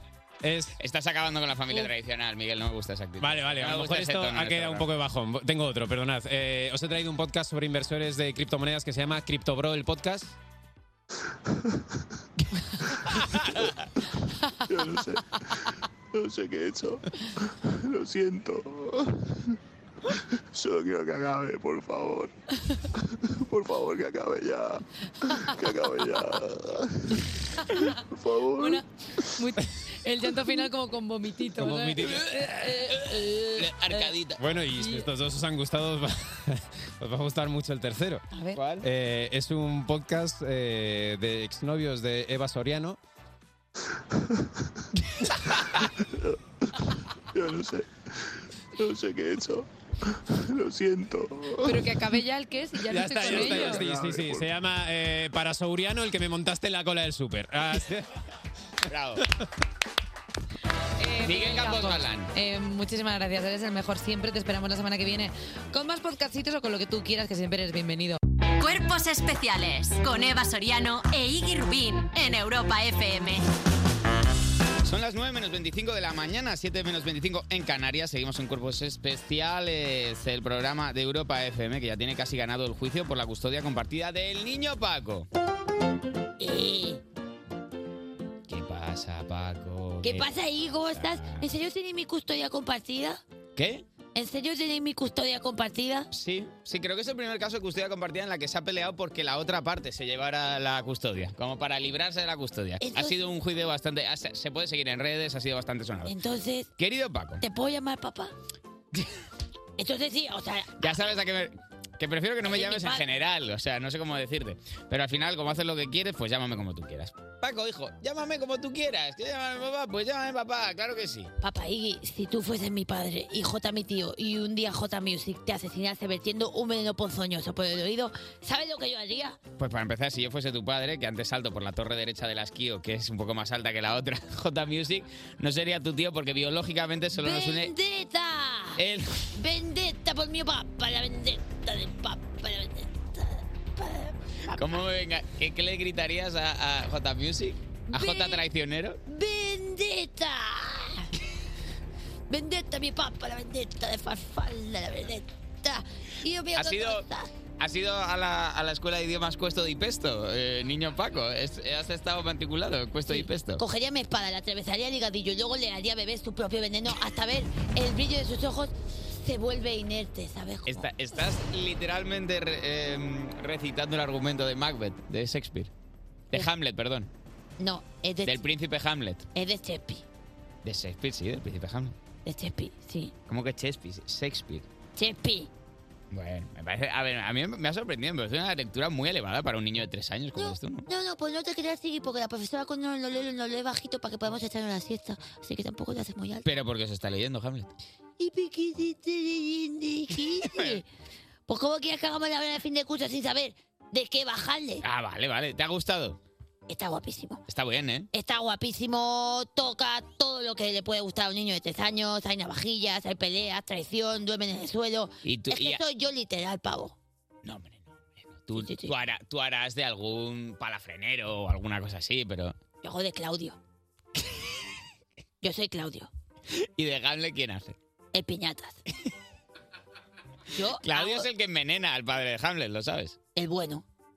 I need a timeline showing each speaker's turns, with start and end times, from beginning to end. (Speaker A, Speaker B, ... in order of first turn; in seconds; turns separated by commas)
Speaker A: 0.4-0.8, Speaker B: 0.8-4.9, Speaker A: 3.2-10.4, Speaker C: 14.7-19.5, Speaker C: 20.5-22.3, Speaker C: 23.0-29.2, Speaker D: 28.6-28.8, Speaker D: 29.4-34.1, Speaker A: 31.6-32.5, Speaker B: 32.0-34.4, Speaker A: 34.4-38.2, Speaker D: 34.8-35.1, Speaker D: 38.3-38.6, Speaker B: 38.6-38.9, Speaker A: 38.8-43.0, Speaker C: 47.3-52.0, Speaker D: 51.6-53.8, Speaker A: 52.9-58.1, Speaker C: 53.1-54.6, Speaker B: 58.9-59.2, Speaker D: 61.0-68.2, Speaker B: 61.2-62.3, Speaker E: 68.6-73.5, Speaker B: 74.8-85.3, Speaker F: 86.4-87.0, Speaker B: 88.5-90.3, Speaker F: 90.0-93.2, Speaker B: 90.9-91.5, Speaker B: 93.6-93.8, Speaker F: 94.2-96.1, Speaker B: 96.1-106.2, Speaker F: 102.8-103.2, Speaker F: 106.1-106.7, Speaker B: 106.8-107.4, Speaker F: 107.4-108.3, Speaker F: 109.8-111.1, Speaker B: 110.8-121.3, Speaker F: 112.4-113.0, Speaker F: 121.4-129.4, Speaker B: 129.6-137.7, Speaker F: 137.1-138.8, Speaker B: 138.8-139.3, Speaker F: 139.3-144.8, Speaker B: 144.5-149.0, Speaker F: 147.9-148.4, Speaker F: 149.1-151.1, Speaker F: 152.3-157.3, Speaker B: 156.6-157.1, Speaker B: 157.6-163.6, Speaker F: 163.1-170.9, Speaker B: 170.7-175.7, Speaker B: 176.3-177.1, Speaker F: 177.6-178.4, Speaker B: 178.2-179.3, Speaker F: 179.3-180.0, Speaker B: 180.6-182.0, Speaker F: 182.2-183.1, Speaker B: 183.3-184.7, Speaker F: 185.0-185.5, Speaker B: 186.1-190.9, Speaker F: 190.4-196.5, Speaker B: 196.4-197.7, Speaker F: 198.2-200.8, Speaker B: 200.4-200.8, Speaker F: 201.5-204.8, Speaker B: 204.8-206.2, Speaker F: 206.7-207.4, Speaker B: 207.5-208.1, Speaker F: 208.1-217.0, Speaker B: 215.2-215.8, Speaker B: 217.4-222.6, Speaker F: 218.5-218.9, Speaker F: 222.8-223.6, Speaker F: 225.4-226.1, Speaker B: 226.8-227.8, Speaker F: 228.1-228.8, Speaker F: 230.5-231.3, Speaker B: 230.8-233.2, Speaker F: 233.3-233.8